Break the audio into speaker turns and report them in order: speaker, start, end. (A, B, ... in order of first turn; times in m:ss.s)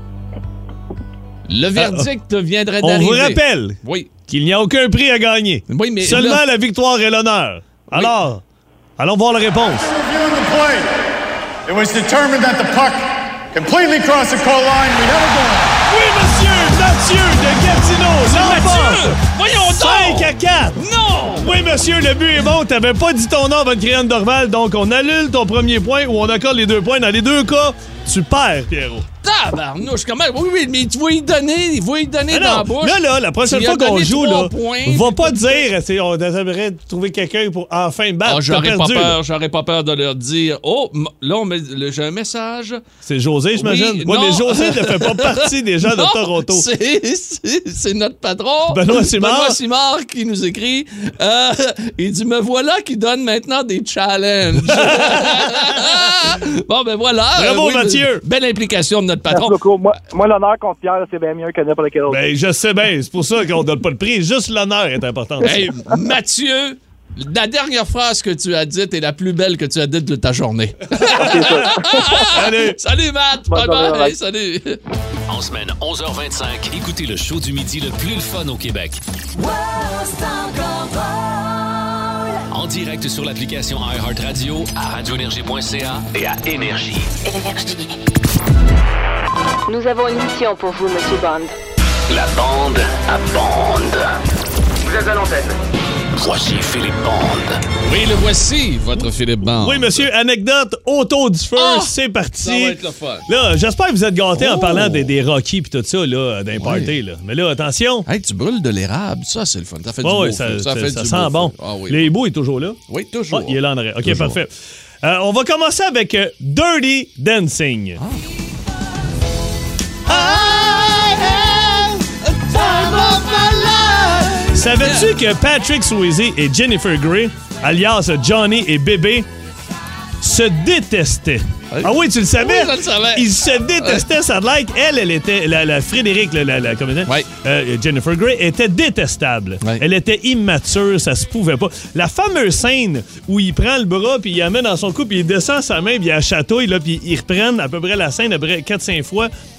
0:01.5-0:04.1 A
0:01.8-0:02.1 B
0:02.8-0:08.4 B
0:05.7-0:06.4 A
0:09.0-0:09.9 B
0:09.8-0:11.0 C
0:11.6-0:15.8 C
0:15.9-0:20.8 B
0:18.2-0:21.5 A
0:21.4-0:29.0 B
0:29.2-0:35.6 A
0:32.3-0:39.2 B
0:38.2-0:42.8 A
0:43.0-0:46.6 B
0:43.5-0:59.7 A
0:48.7-0:49.6 B
0:54.6-0:55.9 B
0:57.4-0:58.2 B
0:59.3-1:02.2 D
1:02.1-1:05.6 B
1:05.4-1:14.8 A
1:11.0-1:12.8 B
1:11.1-1:11.9 D
1:13.5-1:14.1 D
1:15.3-1:19.0 E
1:19.4-1:22.4 F
1:22.5-1:27.1 E
1:27.2-1:28.0 F
1:29.7-1:31.5 F
1:32.1-1:34.1 E
1:34.9-1:35.4 E
1:36.2-1:37.6 E
1:37.8-1:40.0 A
1:39.6-1:48.0 B
1:41.6-1:43.2 A
1:44.3-1:45.1 A
1:46.6-1:47.0 A
1:48.0-1:52.1 A
1:50.0-1:52.8 B
1:52.9-1:54.4 A
1:53.3-1:54.5 B
1:55.0-1:58.0 B
2:00.1-2:09.3 B
2:02.2-2:05.1 A
2:10.2-2:29.3 B
2:11.7-2:13.3 A